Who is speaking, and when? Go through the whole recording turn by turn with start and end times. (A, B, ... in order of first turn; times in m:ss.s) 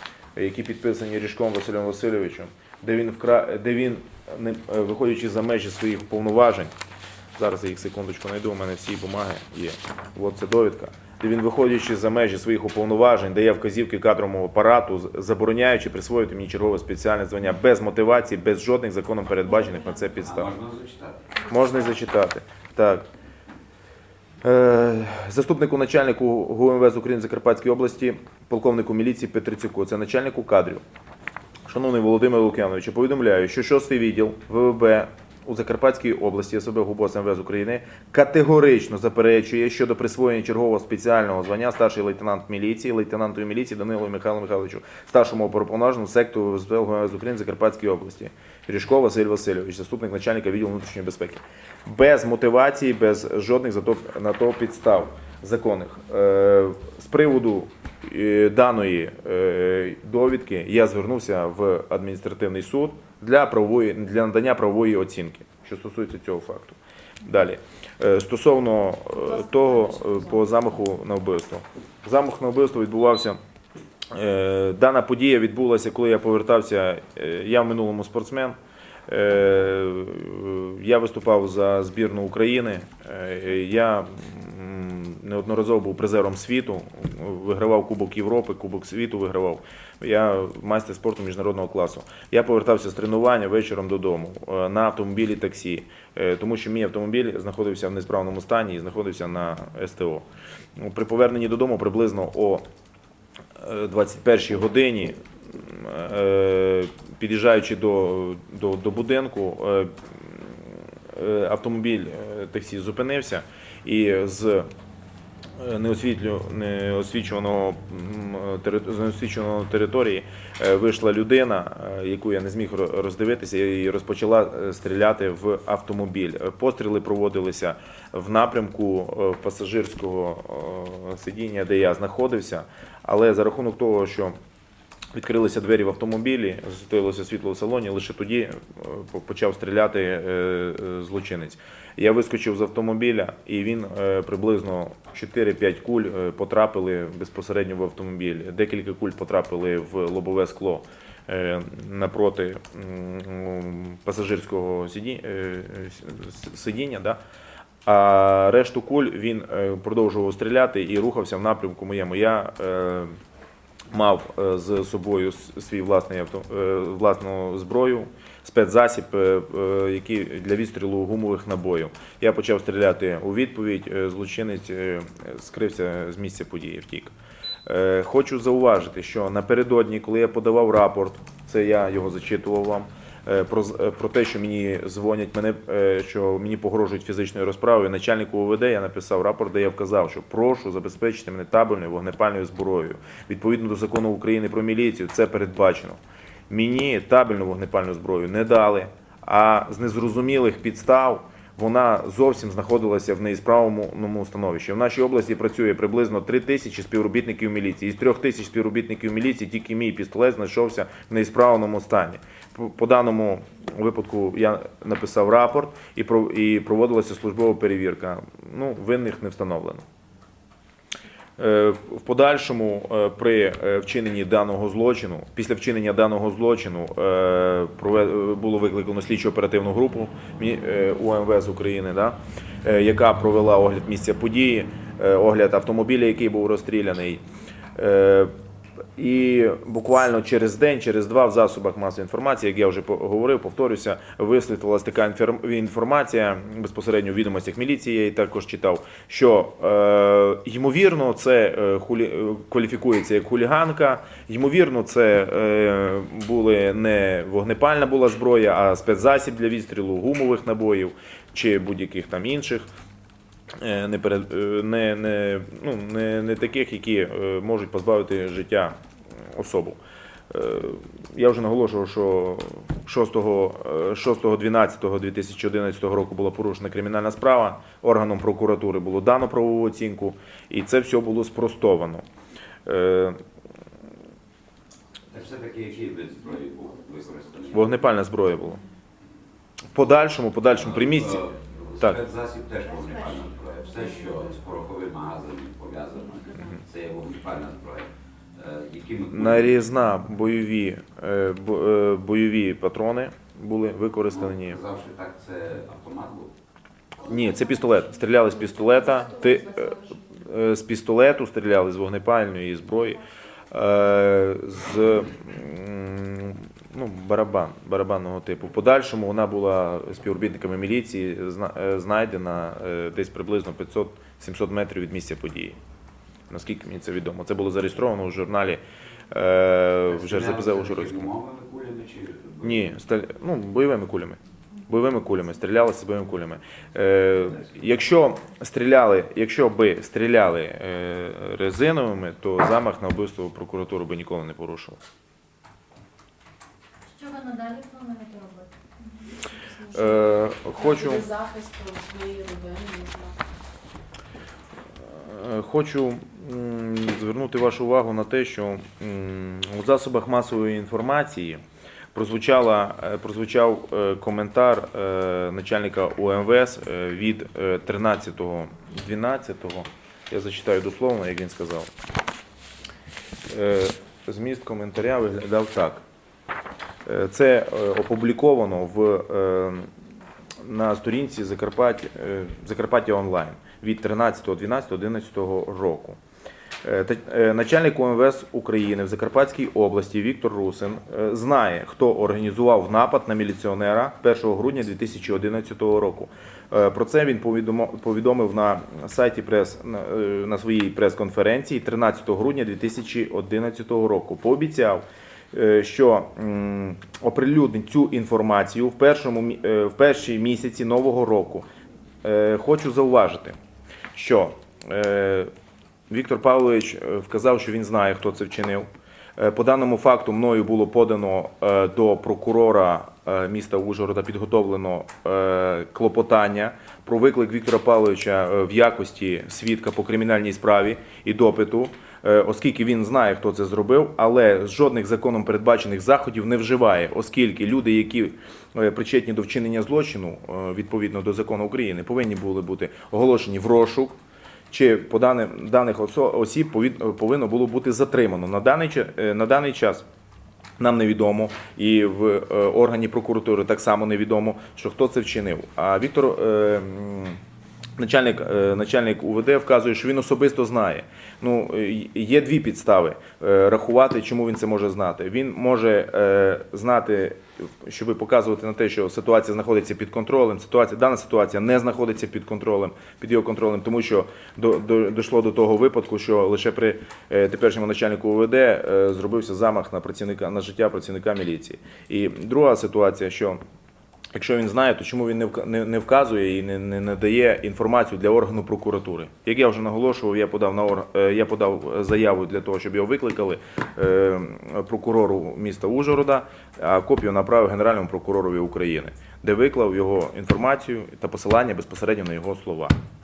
0:00.4-0:06.7 A
0:07.4-0:20.5 A
0:20.2-0:21.3 B
0:21.5-0:23.0 A
0:24.4-0:30.8 A
0:31.7-1:13.4 A
1:09.2-1:10.3 C
1:14.1-1:40.2 A
1:40.8-1:42.6 A
1:43.6-1:54.7 A
1:55.6-2:14.4 A
2:15.1-2:37.2 A
2:37.8-2:43.1 A
2:43.9-2:57.1 A
2:57.7-3:39.8 A
3:41.4-3:57.2 A
3:57.8-3:58.3 A
3:59.0-4:22.7 A
4:23.6-4:28.8 A
4:29.3-4:29.8 A
4:30.3-4:42.0 A
4:42.7-4:43.2 A
4:45.1-4:47.9 B
4:47.5-4:48.6 A
4:49.7-4:52.0 A
4:50.6-4:59.6 B
4:52.7-4:54.3 C
4:59.1-5:04.6 A
5:04.1-5:06.3 B
5:07.0-5:25.6 A
5:07.2-5:08.1 D
5:26.3-5:31.1 A
5:29.9-5:32.7 B
5:32.4-5:44.8 A
5:46.9-5:49.3 D
5:49.4-5:53.2 C
5:49.7-5:51.1 A
5:54.8-6:01.4 A
6:01.9-6:11.7 A
6:13.3-6:15.8 A
6:16.8-6:19.7 A
6:20.4-6:26.0 A
6:26.6-6:51.5 A
6:52.0-6:53.4 A
6:53.9-6:55.3 A
6:55.9-7:24.0 A
7:24.5-7:29.8 A
7:30.6-7:37.2 A
7:37.8-8:03.4 A
8:04.2-8:22.8 A